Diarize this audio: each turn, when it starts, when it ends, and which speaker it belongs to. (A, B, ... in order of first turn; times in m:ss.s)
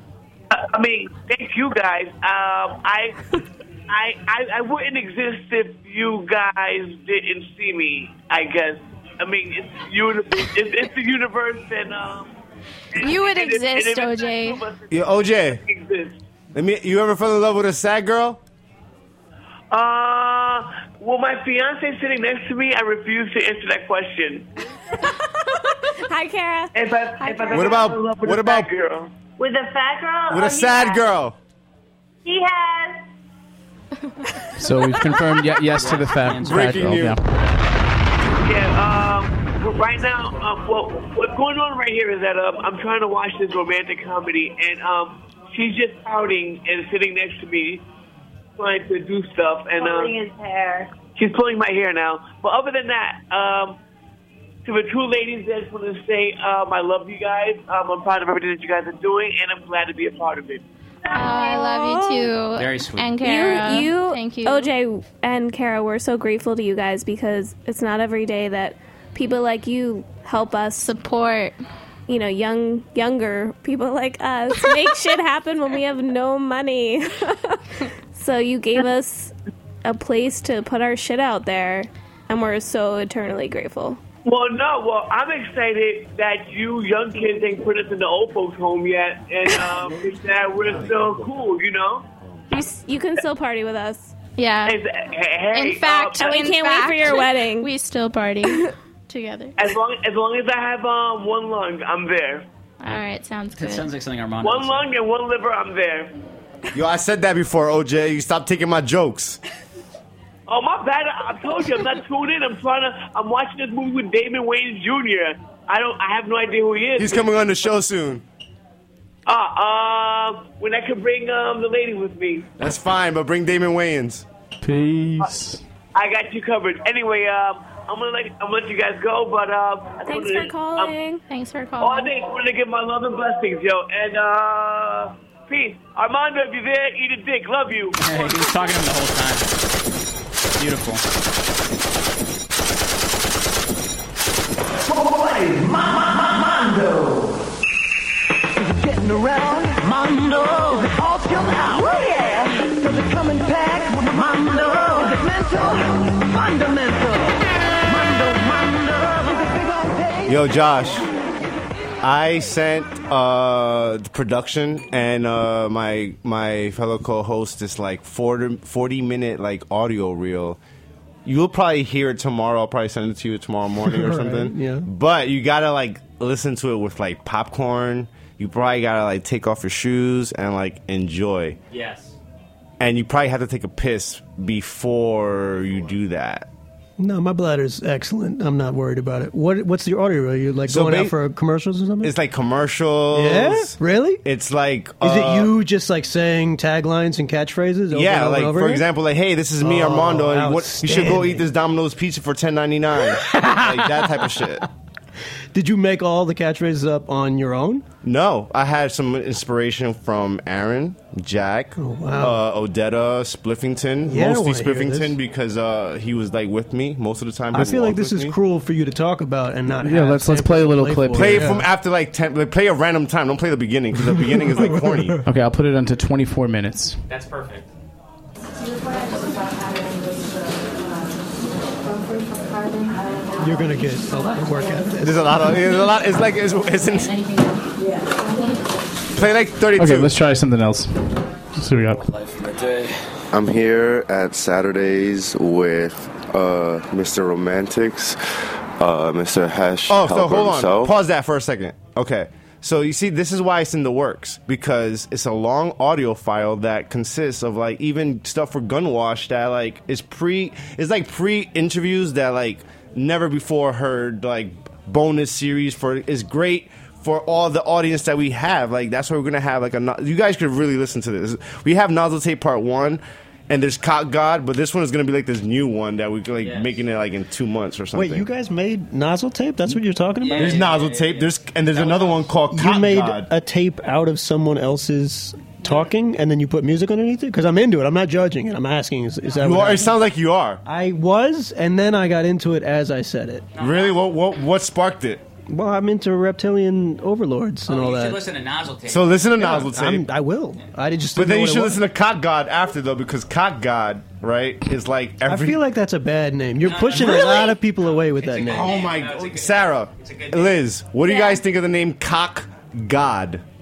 0:00.5-0:03.2 A
0:03.9-0:12.4 A
0:12.9-0:16.2 A
0:13.0-0:14.7 B
0:14.9-0:15.6 C
0:16.5-0:18.4 C
0:19.7-0:24.5 A
0:25.9-0:27.8 D
0:26.7-0:29.1 A
0:27.5-0:28.7 C
0:29.4-0:31.1 E
0:30.3-0:31.4 C
0:32.2-0:33.0 E
0:34.6-0:37.2 F
0:35.7-0:36.8 G
0:36.4-0:37.2 C
0:38.4-0:47.8 A
0:48.6-0:50.1 A
0:49.8-0:50.9 E
0:51.2-0:53.8 A
0:54.6-1:00.6 A
1:01.1-1:04.7 B
1:01.2-1:02.3 D
1:02.6-1:03.1 G
1:03.2-1:10.8 D
1:10.8-1:11.6 B
1:12.1-1:17.6 D
1:18.1-1:24.0 D
1:24.2-1:32.1 A
1:32.5-1:34.2 D
1:34.4-1:34.8 B
1:34.7-1:36.4 A
1:35.5-1:39.6 B
1:36.2-1:37.7 D
1:38.4-1:38.7 D
1:39.6-1:42.4 A
1:42.8-1:43.9 B
1:43.6-1:44.8 G
1:44.4-1:46.1 A
1:46.7-1:49.4 C
1:50.5-1:57.3 A
1:57.0-1:58.2 C
1:59.3-2:02.5 A
2:02.6-2:04.2 C
2:04.6-2:05.6 F
2:06.0-2:10.9 A
2:10.0-2:11.2 D
2:11.3-2:12.1 B
2:11.8-2:18.0 A
2:18.0-2:19.5 G
2:20.6-2:21.0 G
2:24.9-2:27.3 H
2:28.8-2:40.3 H
2:40.3-2:41.1 C
2:42.0-2:50.6 C
2:51.2-3:01.6 C
2:53.9-2:54.9 I
3:01.7-3:02.2 G
3:02.8-3:06.5 C
3:07.0-3:12.1 I
3:10.7-3:11.1 C
3:12.0-3:15.5 C
3:13.1-3:14.2 I
3:15.0-3:18.8 I
3:17.9-3:24.6 C
3:19.6-3:21.5 I
3:25.5-3:27.8 I
3:28.0-3:38.4 C
3:31.8-3:32.4 I
3:34.1-3:35.2 I
3:37.5-3:41.7 I
3:39.8-3:41.6 F
3:41.1-3:45.2 C
3:44.3-3:45.2 I
3:45.2-3:47.0 F
3:47.1-3:47.7 G
3:53.4-3:55.5 I
3:55.0-3:57.1 C
3:59.1-4:00.1 C
3:59.8-4:00.9 F
4:01.6-4:02.0 F
4:03.3-4:08.2 J
4:08.8-4:10.9 J
4:09.9-4:38.3 C
4:36.4-4:36.8 G
4:37.9-4:40.7 I
4:40.2-4:42.3 G
4:40.4-4:43.3 C
4:42.5-4:50.0 I
4:49.4-4:50.6 C
4:50.6-4:53.5 I
4:53.6-4:54.0 G
4:53.6-4:55.2 C
4:55.5-4:58.2 I
4:57.7-4:59.6 G
4:58.9-5:00.1 C
4:59.4-5:01.8 I
5:01.2-5:05.6 C
5:05.2-5:08.8 I
5:06.6-5:10.6 G
5:08.5-5:13.4 C